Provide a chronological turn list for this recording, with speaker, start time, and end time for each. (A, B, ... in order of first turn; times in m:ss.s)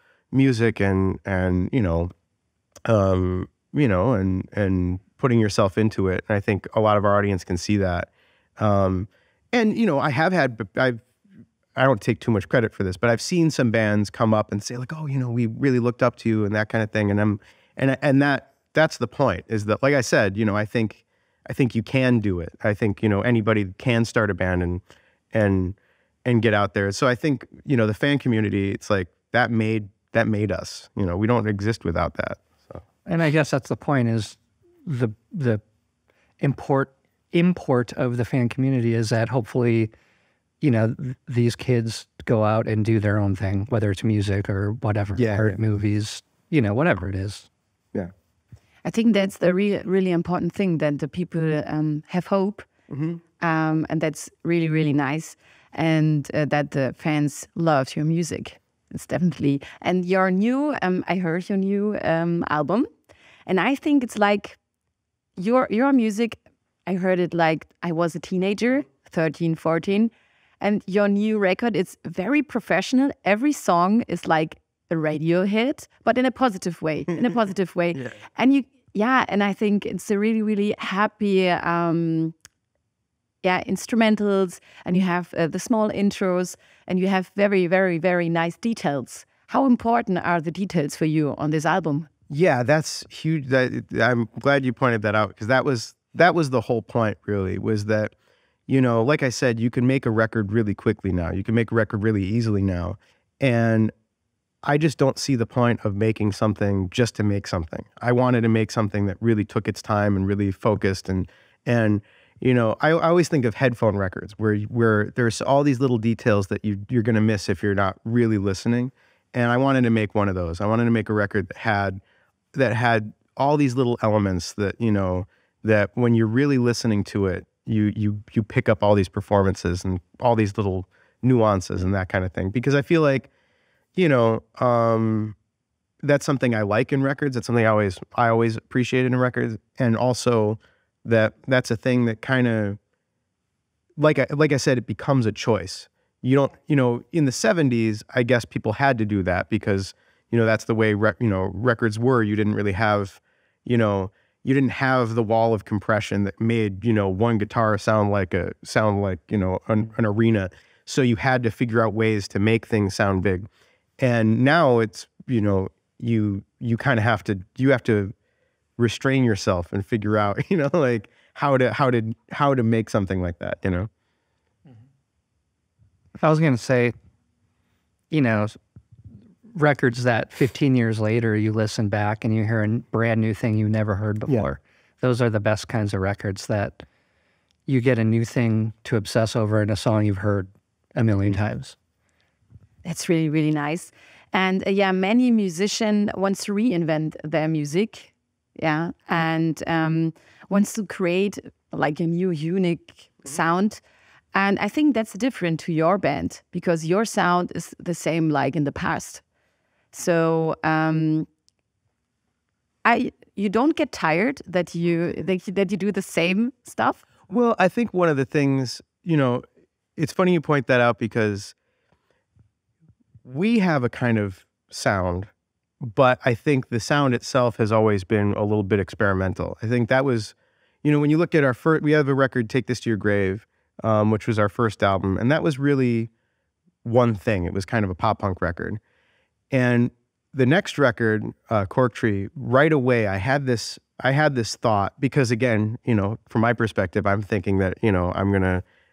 0:00.3-0:02.1 A
0:02.8-0:11.0 A
0:11.8-0:32.8 A
0:33.0-0:35.6 B
0:36.4-0:39.9 B
0:40.6-0:47.5 B
0:45.2-0:45.6 A
0:48.8-0:52.7 C
0:52.9-0:53.2 A
0:53.4-1:02.9 C
1:03.4-1:04.6 C
1:05.4-1:22.3 C
1:23.4-1:32.1 C
1:32.3-1:38.1 A
1:38.7-1:43.9 A
1:44.6-2:02.0 A
2:02.5-2:13.3 A
2:14.0-2:15.3 A
2:16.0-2:22.8 A
2:24.0-2:43.4 A
2:44.0-2:48.1 A
2:48.8-2:53.9 A
2:56.2-2:56.9 B
2:58.1-2:58.6 B
2:59.5-3:06.8 B
3:07.6-3:11.8 B
3:12.8-3:23.8 C
3:24.3-3:29.2 C
3:29.9-3:31.3 C
3:32.8-3:37.0 C
3:37.3-3:39.4 A
3:40.0-3:41.5 A
3:43.2-3:45.3 A
3:45.8-3:56.1 A
3:56.8-3:58.8 A
3:59.5-4:08.6 A